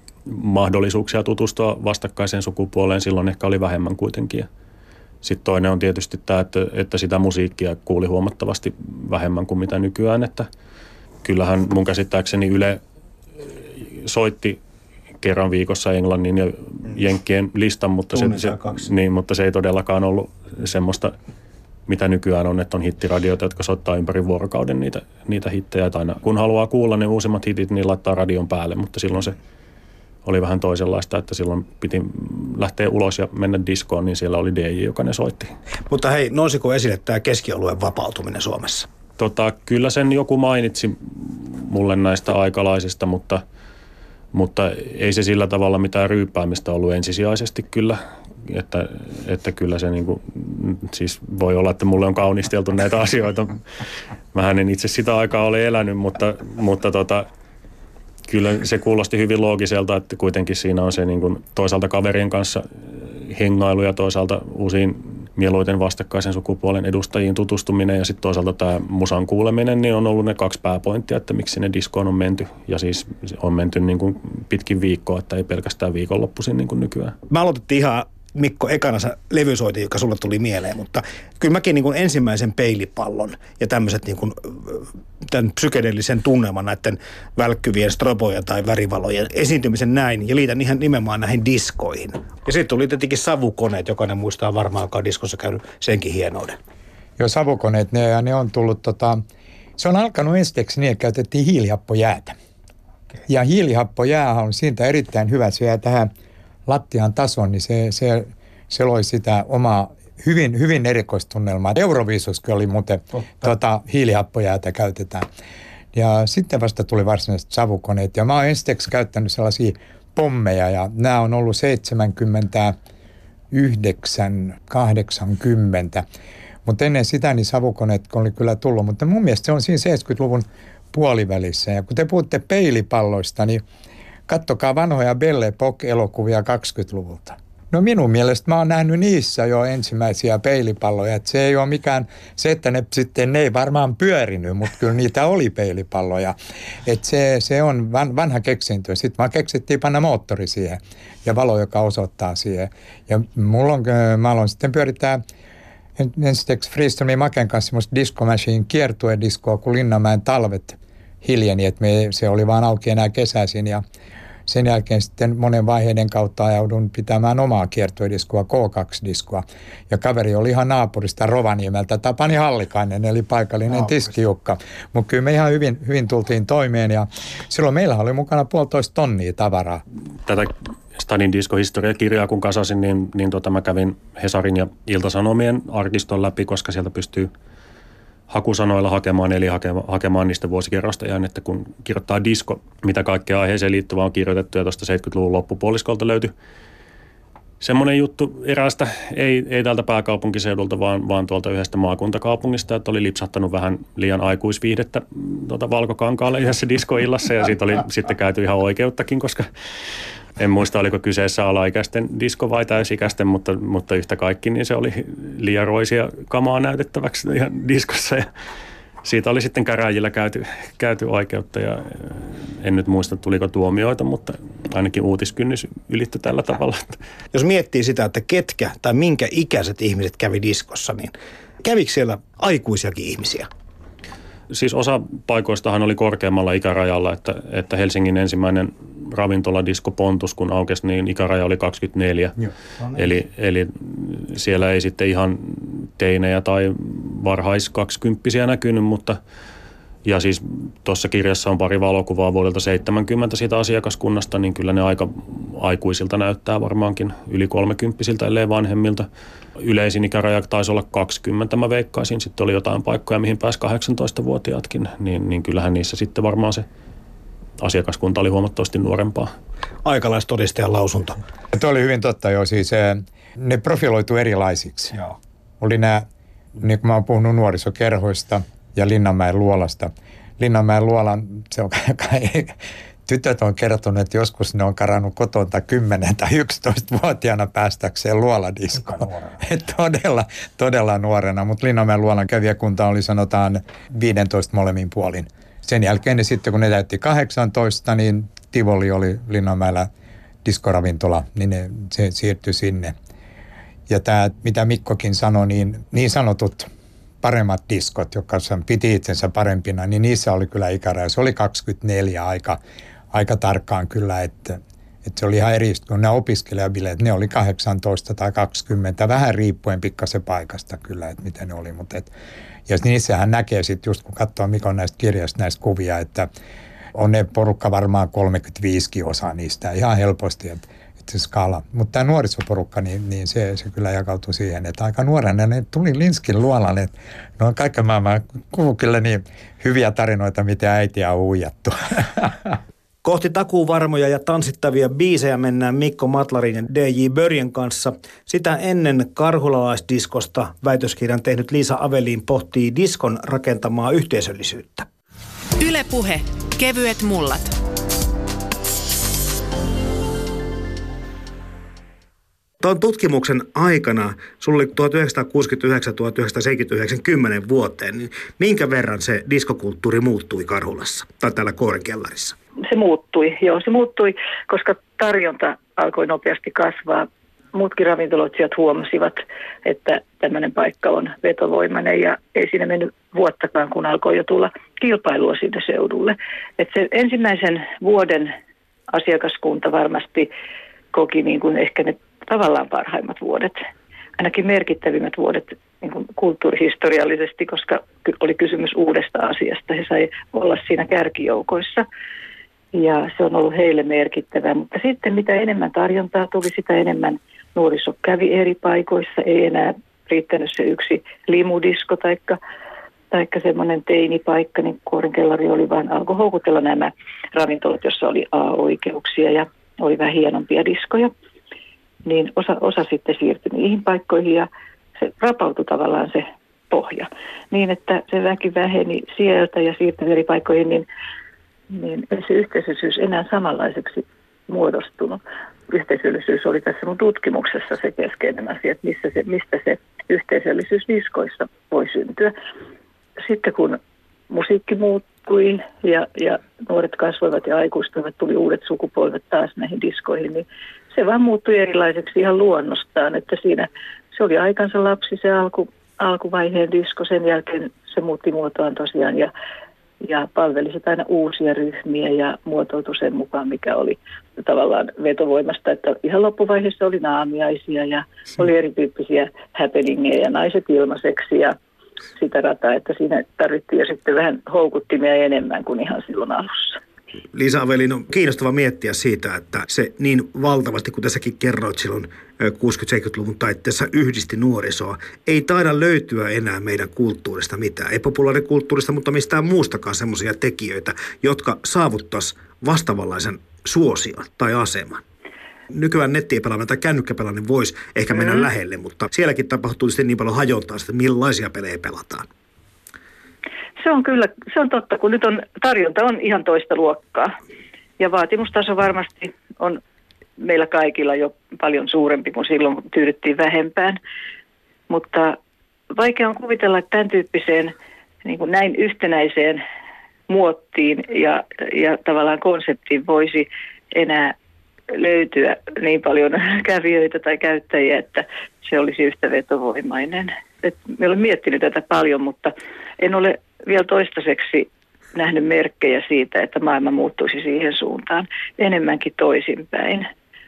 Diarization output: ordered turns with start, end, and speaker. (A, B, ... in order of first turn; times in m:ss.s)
0:00.3-0:04.5 A
0:05.2-0:10.5 A
0:11.2-0:12.8 A
0:13.8-0:14.6 A
0:15.2-0:21.2 A
0:18.1-0:18.9 B
0:21.9-0:29.4 A
0:30.2-0:35.5 A
0:35.9-0:38.9 B
0:39.2-0:43.4 A
0:44.3-0:53.6 A
0:54.3-0:57.3 A
0:58.3-1:17.2 A
1:17.3-1:36.6 B
1:37.2-1:39.2 C
1:39.8-1:42.4 C
1:43.3-1:46.1 C
1:46.7-1:55.3 C
1:55.9-2:02.8 C
2:03.5-2:06.0 C
2:06.7-2:13.6 C
2:14.3-2:35.2 C
2:36.0-2:43.8 C
2:44.5-2:59.8 C
3:00.3-3:07.3 A
3:08.3-3:16.3 A
3:17.6-3:29.5 A
3:30.4-3:38.3 A
3:39.0-3:47.0 A
3:47.3-3:53.5 B
3:54.5-4:02.4 A
4:02.9-4:09.2 A
4:10.0-4:19.1 A
4:19.6-4:26.7 A
4:27.6-4:29.3 A
4:29.8-4:31.2 B
4:31.5-4:35.0 C
4:35.6-4:36.1 C
4:36.6-4:59.9 C
4:49.1-4:49.3 B
5:00.4-5:03.0 C
5:03.9-5:06.7 C
5:07.2-5:12.6 C
5:13.1-5:22.1 C
5:22.7-5:26.3 C
5:27.0-5:42.6 C
5:43.0-5:54.9 B
5:55.6-5:57.5 D
6:02.6-6:12.4 B
6:12.6-6:28.3 E
6:28.9-6:30.3 E
6:30.9-6:33.6 E
6:34.2-6:41.8 E
6:42.7-6:52.4 E
6:53.1-7:01.1 E
7:02.1-7:04.5 E
7:05.0-7:10.9 E
7:11.7-7:22.3 E
7:23.2-7:23.8 E
7:24.3-7:39.3 E
7:40.0-7:51.6 E
7:52.2-7:56.8 E
7:57.3-8:15.0 B
8:15.7-8:22.3 B
8:23.8-8:27.3 E
8:28.0-8:29.8 E
8:30.4-8:34.0 E
8:34.9-8:35.4 E
8:35.9-8:39.6 E
8:40.3-8:44.4 E
8:44.9-9:00.1 E